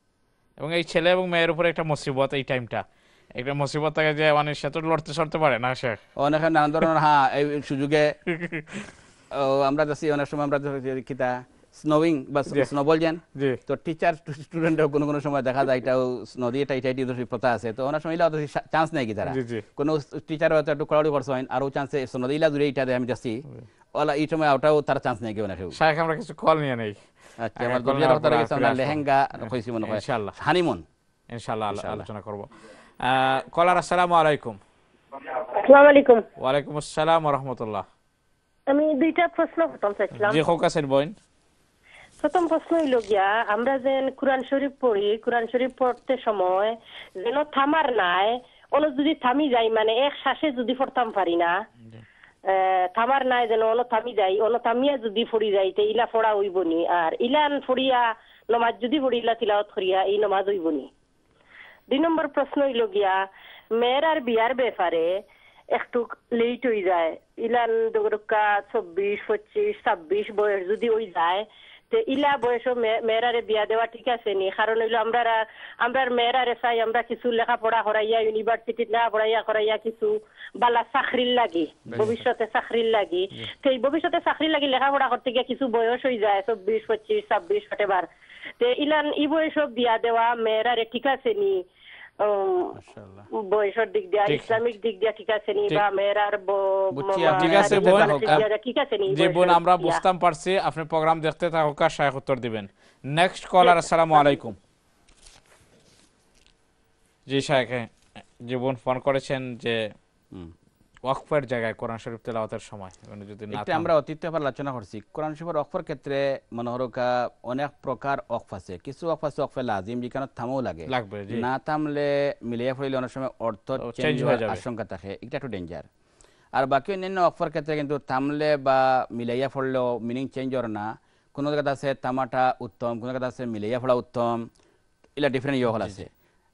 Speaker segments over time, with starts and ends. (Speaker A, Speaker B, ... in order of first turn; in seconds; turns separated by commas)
Speaker A: 0.6-6.0, Speaker B: 6.2-8.2, Speaker A: 8.3-8.9, Speaker B: 9.3-25.8, Speaker A: 12.4-12.7, Speaker A: 13.3-13.6, Speaker A: 19.3-19.6, Speaker A: 25.7-30.4, Speaker B: 27.4-30.9, Speaker A: 31.3-32.5, Speaker B: 31.7-32.1, Speaker A: 33.0-34.6, Speaker C: 35.5-36.2, Speaker A: 36.4-37.9, Speaker C: 38.7-40.4, Speaker A: 40.1-41.1, Speaker C: 42.2-51.6, Speaker C: 52.4-60.9, Speaker C: 61.9-88.1, Speaker A: 81.9-82.2, Speaker C: 88.6-91.6, Speaker C: 92.2-92.8, Speaker A: 92.9-93.2, Speaker C: 93.3-100.0, Speaker A: 94.2-94.6, Speaker B: 96.9-98.4, Speaker A: 97.2-98.5, Speaker A: 99.1-104.6, Speaker C: 103.6-104.2, Speaker A: 107.3-109.9, Speaker A: 111.0-113.9, Speaker B: 113.5-125.9, Speaker A: 120.9-121.5, Speaker A: 123.8-124.6, Speaker B: 126.5-134.5, Speaker B: 135.2-136.1, Speaker A: 135.7-136.0